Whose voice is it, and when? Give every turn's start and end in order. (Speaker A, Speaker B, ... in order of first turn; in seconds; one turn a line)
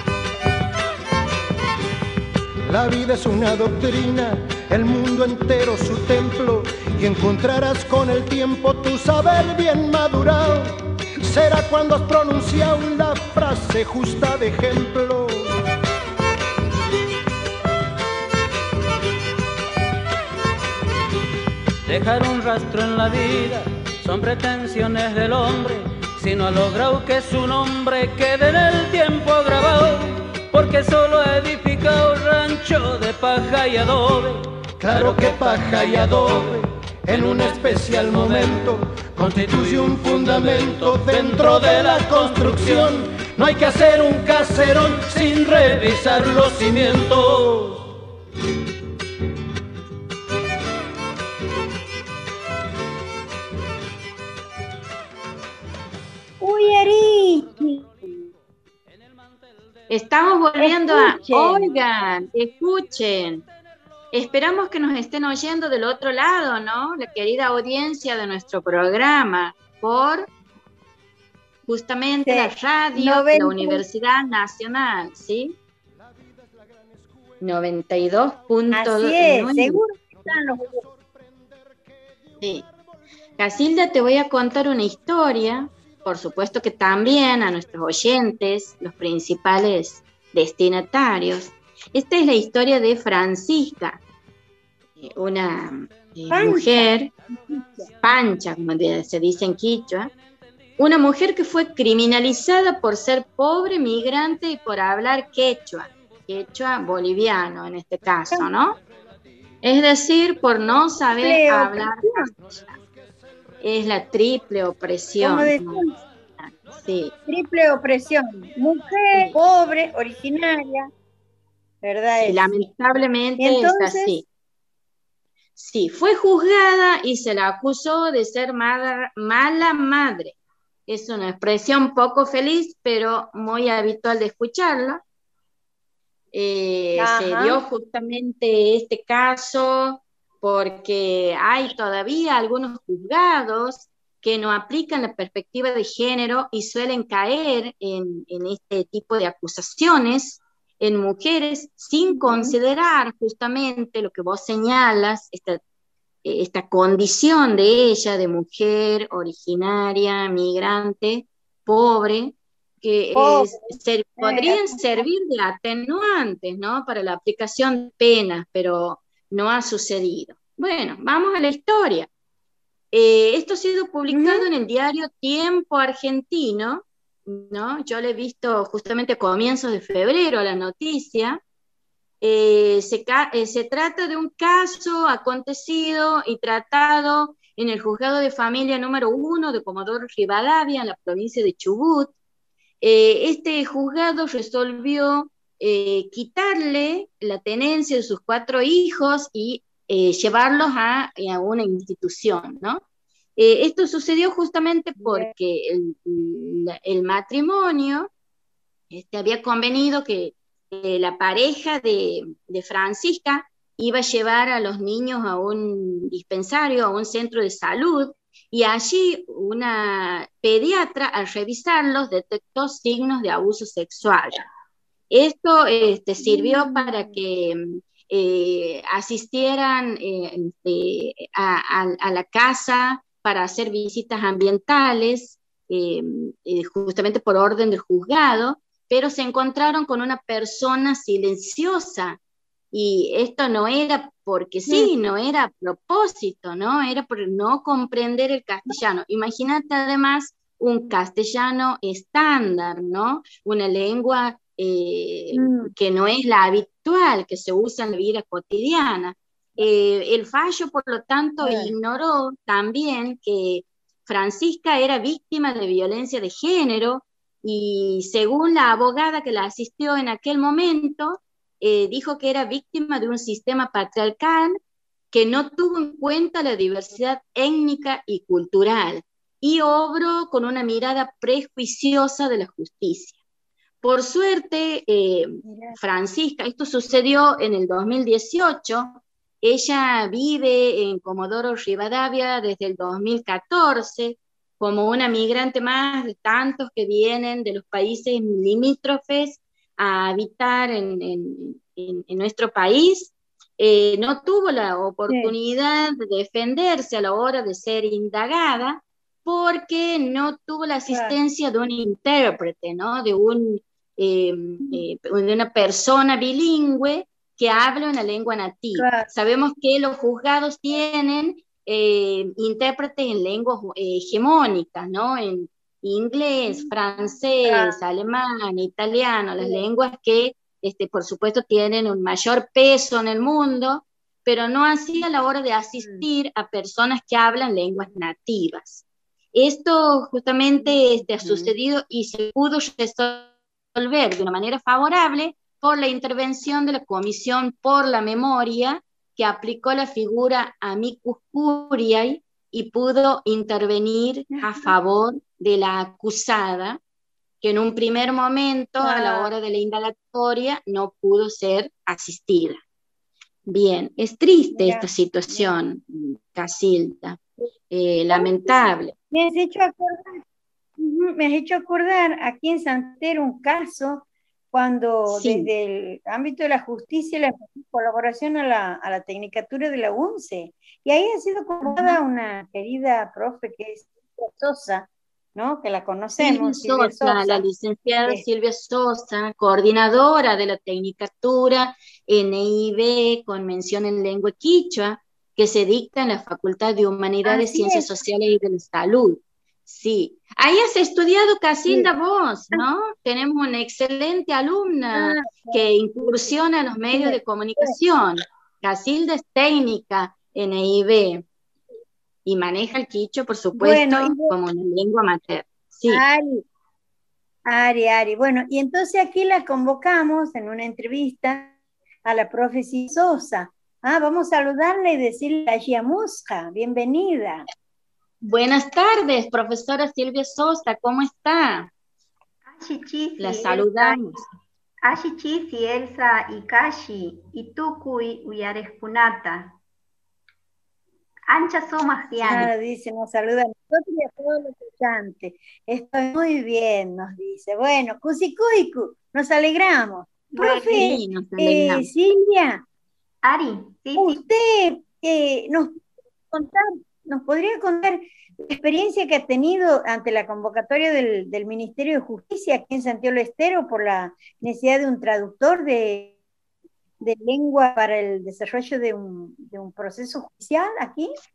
Speaker A: 2.7-15.6
Speaker B: 21.9-36.3
Speaker A: 34.8-47.8
Speaker B: 37.1-38.6
Speaker B: 39.2-43.0
Speaker B: 45.0-47.6
Speaker C: 56.4-57.9
Speaker D: 59.9-63.5
Speaker C: 60.6-61.7
Speaker D: 64.1-70.3
Speaker D: 71.7-75.6
Speaker C: 72.2-73.8
Speaker D: 77.4-79.8
Speaker C: 78.7-80.9
Speaker D: 82.4-82.7
Speaker D: 83.4-94.0
Speaker D: 95.0-97.1
Speaker C: 96.3-97.9
Speaker D: 98.0-100.1
Speaker D: 100.8-108.8
Speaker D: 109.6-112.8
Speaker C: 111.2-112.3
Speaker D: 113.6-115.9
Speaker C: 115.2-116.0
Speaker D: 116.4-117.1
Speaker C: 117.3-120.9
Speaker C: 121.8-122.6
Speaker D: 122.2-124.3
Speaker C: 123.4-124.2
Speaker D: 125.6-135.0
Speaker D: 136.3-155.6
Speaker C: 137.0-137.6
Speaker C: 152.1-152.6
Speaker D: 156.2-172.1
Speaker C: 163.2-165.1
Speaker D: 172.9-181.4
Speaker C: 174.1-174.5
Speaker D: 182.2-192.2
Speaker D: 192.8-202.8
Speaker D: 203.4-208.1
Speaker C: 205.0-205.3
Speaker D: 208.9-224.4
Speaker D: 225.1-242.2
Speaker C: 226.2-227.2
Speaker D: 242.7-274.6
Speaker C: 255.3-255.7
Speaker C: 261.4-261.7
Speaker D: 275.1-283.2
Speaker D: 283.8-356.8
Speaker C: 285.4-285.8
Speaker C: 305.1-305.4
Speaker C: 310.9-311.2
Speaker C: 318.8-319.1
Speaker C: 326.5-327.8
Speaker C: 329.4-329.6
Speaker C: 335.8-336.1
Speaker C: 340.6-341.5
Speaker C: 354.3-354.8
Speaker D: 357.4-362.6
Speaker C: 358.8-359.3
Speaker D: 363.5-368.9
Speaker C: 364.5-365.5
Speaker C: 368.1-370.2
Speaker C: 370.8-387.4
Speaker D: 375.1-375.5
Speaker D: 386.2-411.2
Speaker C: 397.2-398.0
Speaker C: 404.9-407.8
Speaker D: 412.2-416.0
Speaker C: 413.6-414.4
Speaker C: 415.9-416.4
Speaker C: 417.5-427.4
Speaker D: 428.2-431.7
Speaker E: 432.5-434.3
Speaker D: 433.2-434.2
Speaker E: 434.8-439.6
Speaker E: 441.3-442.5
Speaker C: 442.2-452.6
Speaker D: 450.4-451.9
Speaker E: 453.2-454.2
Speaker C: 454.0-455.8
Speaker C: 456.3-466.2
Speaker C: 467.0-471.1